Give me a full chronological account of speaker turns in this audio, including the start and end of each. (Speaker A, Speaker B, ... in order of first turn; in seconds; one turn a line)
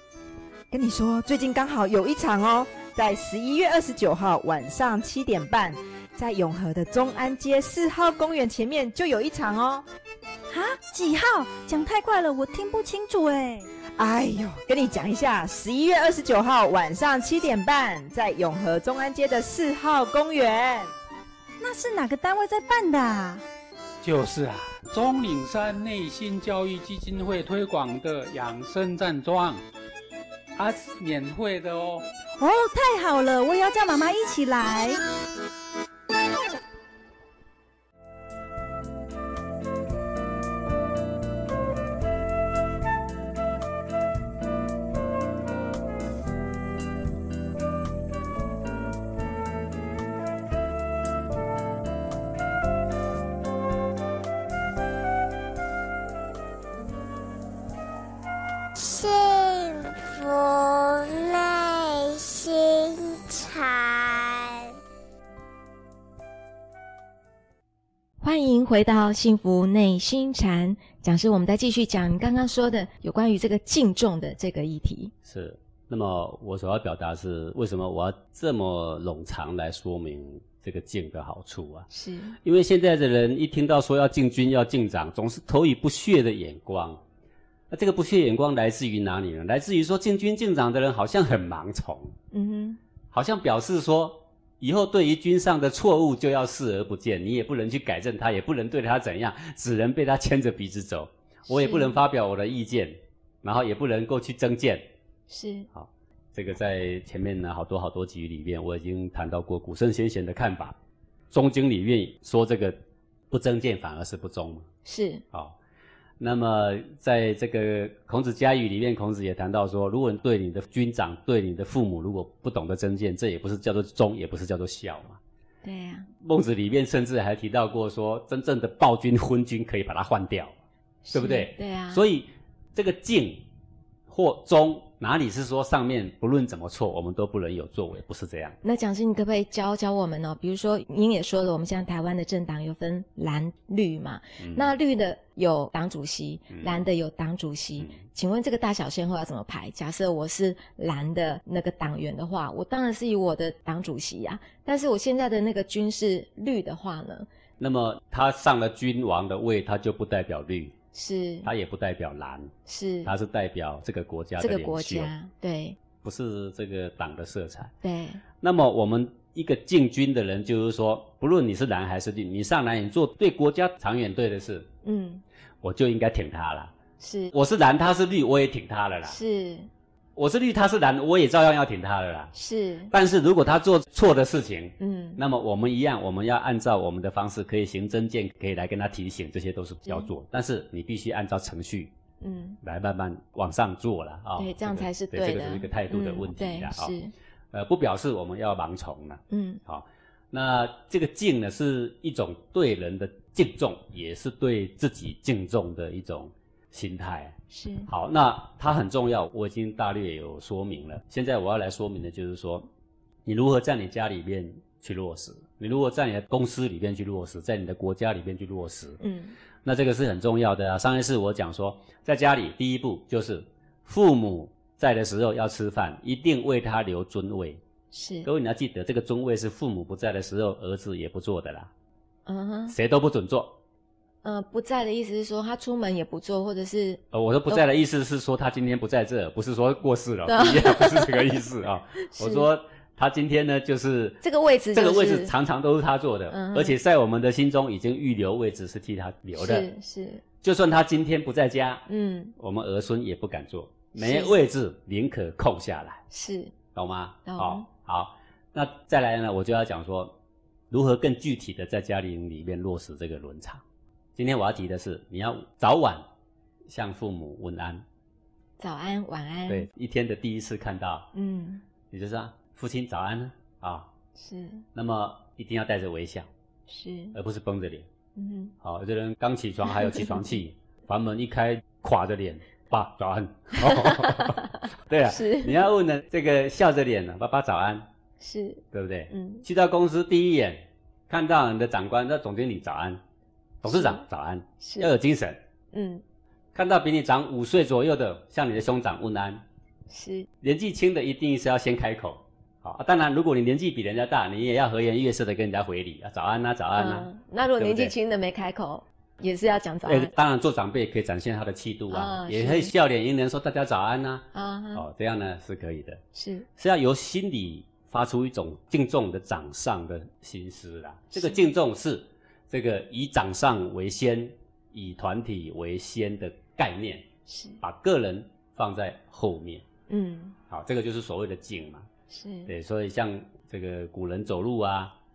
Speaker A: 0.7-9.8
Speaker B: 10.5-13.7
Speaker A: 14.0-20.9
Speaker B: 21.6-23.4
Speaker C: 24.0-29.6
Speaker C: 30.6-32.0
Speaker B: 32.4-35.0
Speaker D: 58.8-64.7
Speaker E: 68.2-75.1
Speaker F: 75.2-81.9
Speaker E: 81.9-82.4
Speaker F: 82.4-87.0
Speaker F: 87.7-92.1
Speaker E: 92.3-92.8
Speaker F: 93.1-104.8
Speaker E: 101.5-102.0
Speaker E: 105.3-105.7
Speaker F: 105.7-110.8
Speaker F: 111.3-112.8
Speaker F: 113.3-114.7
Speaker E: 114.8-115.2
Speaker F: 116.2-125.2
Speaker E: 125.6-126.1
Speaker F: 126.2-130.5
Speaker E: 131.0-132.0
Speaker F: 131.1-133.4
Speaker F: 134.1-138.6
Speaker E: 138.6-157.3
Speaker F: 144.4-144.7
Speaker F: 146.5-146.8
Speaker F: 157.6-160.7
Speaker E: 160.9-161.5
Speaker F: 161.4-162.5
Speaker E: 162.7-163.1
Speaker F: 163.0-165.1
Speaker E: 164.4-165.8
Speaker F: 166.0-167.7
Speaker E: 167.8-168.2
Speaker F: 168.4-174.7
Speaker E: 174.8-175.2
Speaker F: 175.6-176.7
Speaker E: 177.0-177.3
Speaker F: 177.3-179.2
Speaker E: 179.0-179.7
Speaker F: 180.2-182.3
Speaker E: 182.3-182.9
Speaker F: 182.9-191.9
Speaker E: 184.8-185.2
Speaker E: 192.2-192.6
Speaker F: 192.6-196.9
Speaker E: 194.4-197.1
Speaker F: 197.5-207.4
Speaker E: 199.3-199.6
Speaker E: 207.5-207.9
Speaker F: 207.9-212.7
Speaker F: 213.2-219.0
Speaker E: 219.0-219.3
Speaker F: 219.6-227.6
Speaker E: 227.9-228.3
Speaker F: 228.2-231.7
Speaker E: 232.2-232.7
Speaker F: 232.7-233.6
Speaker E: 234.2-237.6
Speaker F: 237.1-244.2
Speaker E: 240.3-241.2
Speaker E: 242.0-242.5
Speaker E: 244.2-245.3
Speaker F: 244.7-249.7
Speaker E: 246.3-246.8
Speaker E: 249.3-250.2
Speaker F: 250.4-251.8
Speaker E: 251.9-252.3
Speaker F: 252.4-256.0
Speaker E: 254.0-254.3
Speaker E: 256.1-256.5
Speaker F: 256.7-260.1
Speaker E: 257.2-257.7
Speaker F: 260.7-263.6
Speaker F: 264.1-266.0
Speaker F: 266.7-267.8
Speaker E: 268.6-269.7
Speaker F: 269.5-271.1
Speaker E: 271.1-271.6
Speaker F: 271.9-273.9
Speaker E: 274.2-274.6
Speaker F: 274.7-276.3
Speaker E: 276.7-277.2
Speaker F: 277.1-277.9
Speaker E: 278.1-278.5
Speaker F: 278.6-287.9
Speaker E: 279.8-280.2
Speaker E: 283.6-285.6
Speaker E: 288.2-289.4
Speaker F: 288.7-293.0
Speaker F: 293.6-295.4
Speaker E: 293.7-294.0
Speaker E: 294.6-294.9
Speaker E: 295.7-296.0
Speaker F: 296.5-299.4
Speaker E: 299.9-300.3
Speaker F: 300.4-307.9
Speaker E: 306.8-310.1
Speaker F: 309.9-316.0
Speaker E: 311.9-312.7
Speaker E: 314.3-314.8
Speaker E: 316.1-316.5
Speaker F: 316.6-327.1
Speaker E: 321.1-321.4
Speaker E: 327.3-327.6
Speaker F: 327.6-329.6
Speaker E: 329.9-330.4
Speaker F: 330.5-331.9
Speaker E: 332.1-332.5
Speaker F: 332.5-334.9